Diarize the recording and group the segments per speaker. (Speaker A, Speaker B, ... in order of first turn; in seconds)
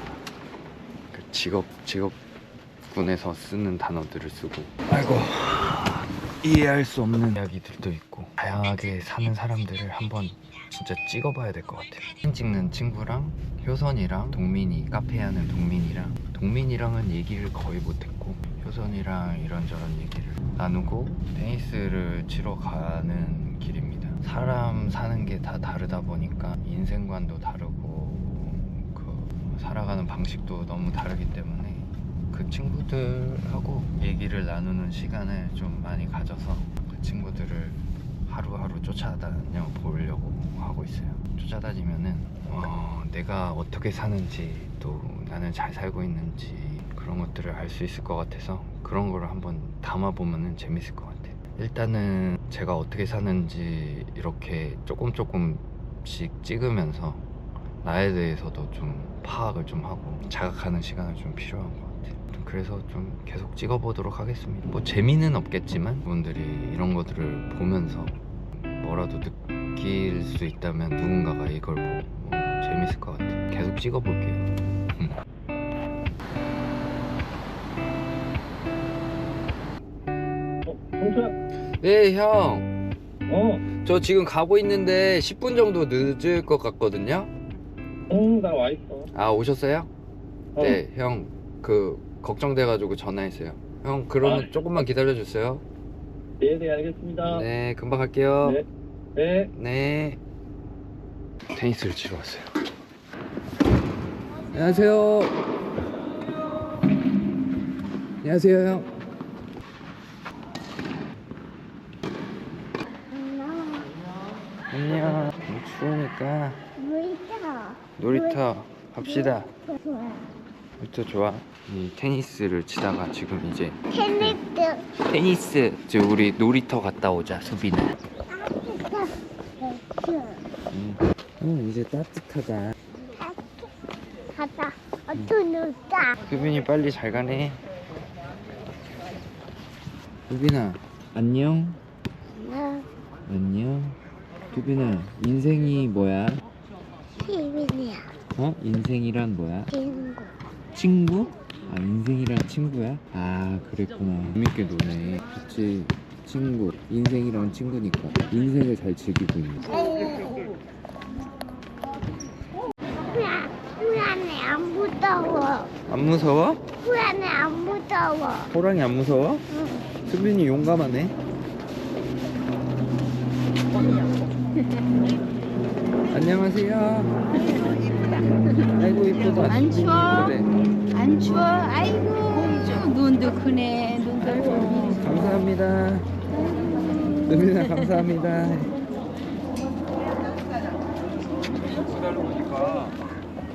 Speaker A: 1.1-2.2, 2.9-57.2, 57.8-75.2, 81.6-82.7, 83.7-87.3, 89.1-89.9, 90.6-95.6, 97.2-98.6, 99.5-100.2, 101.5-102.5, 104.5-105.4, 108.2-108.9, 114.7-116.6, 118.0-119.5, 120.8-127.9, 130.7-132.8, 135.1-135.4, 136.2-137.6, 140.3-141.8, 143.3-144.0, 144.5-146.4, 148.3-149.8, 150.7-159.9, 165.9-166.6, 168.5-169.5, 170.1-171.2, 176.1-177.2, 178.5-180.5, 184.7-186.1, 187.2-188.8, 191.6-193.0
Speaker B: 80.7-81.3, 83.3-83.6, 88.1-89.1, 96.4-97.5, 99.2-99.5
Speaker C: 116.9-117.8, 134.4-134.7, 135.5-135.9, 147.3-148.0, 163.6-165.7, 167.0-168.4
Speaker D: 179.4-180.3, 180.9-185.0